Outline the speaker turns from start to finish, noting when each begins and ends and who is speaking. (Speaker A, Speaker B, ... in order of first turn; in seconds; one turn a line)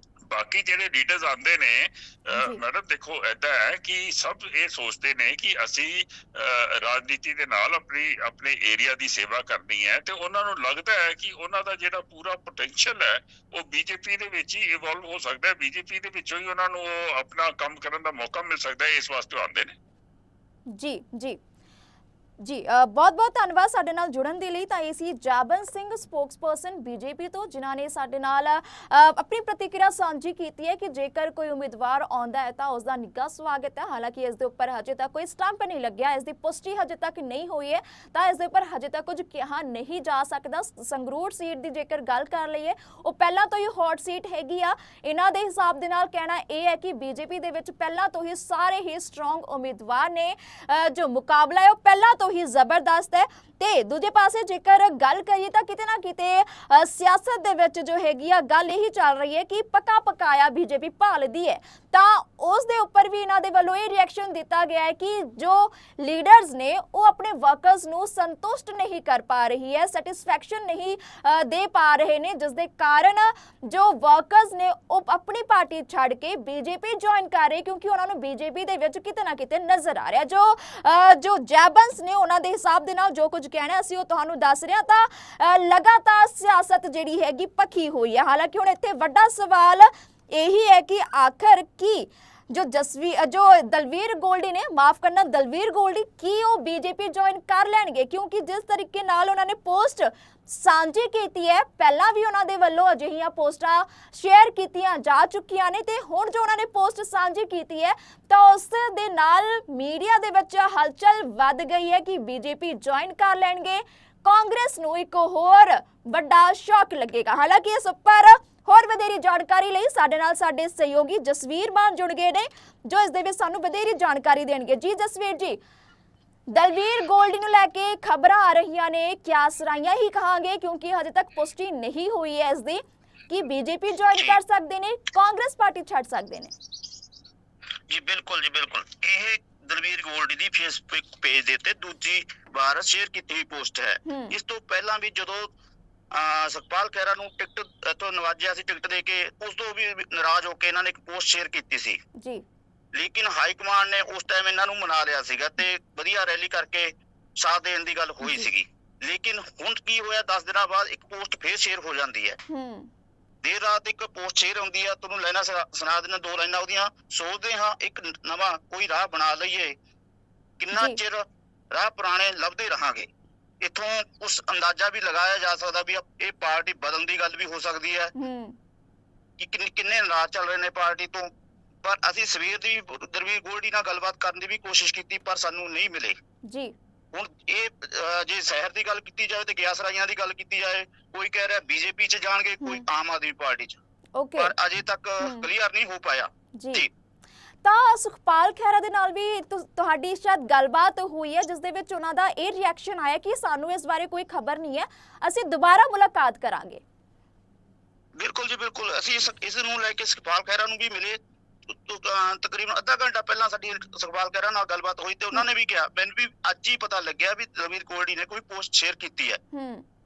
Speaker A: 0.3-19.7
Speaker B: 2.3-2.6
Speaker B: 20.7-21.4
Speaker B: 22.4-125.6
Speaker B: 126.5-136.5
Speaker C: 134.1-134.4
Speaker C: 137.9-145.5
Speaker B: 144.1-144.3
Speaker C: 146.1-152.0
Speaker B: 152.2-152.4
Speaker C: 152.9-162.4
Speaker B: 158.2-158.5
Speaker B: 162.5-162.9
Speaker C: 163.4-169.8
Speaker C: 170.6-173.1
Speaker B: 170.7-171.0
Speaker C: 173.6-178.1
Speaker B: 178.2-178.6
Speaker C: 179.4-181.3
Speaker C: 181.8-186.2
Speaker B: 186.5-186.7
Speaker C: 187.1-193.8
Speaker B: 194.2-194.5
Speaker C: 194.4-196.9
Speaker B: 195.2-195.5
Speaker B: 196.6-196.8
Speaker B: 197.6-206.8
Speaker C: 208.2-219.4
Speaker B: 219.5-219.8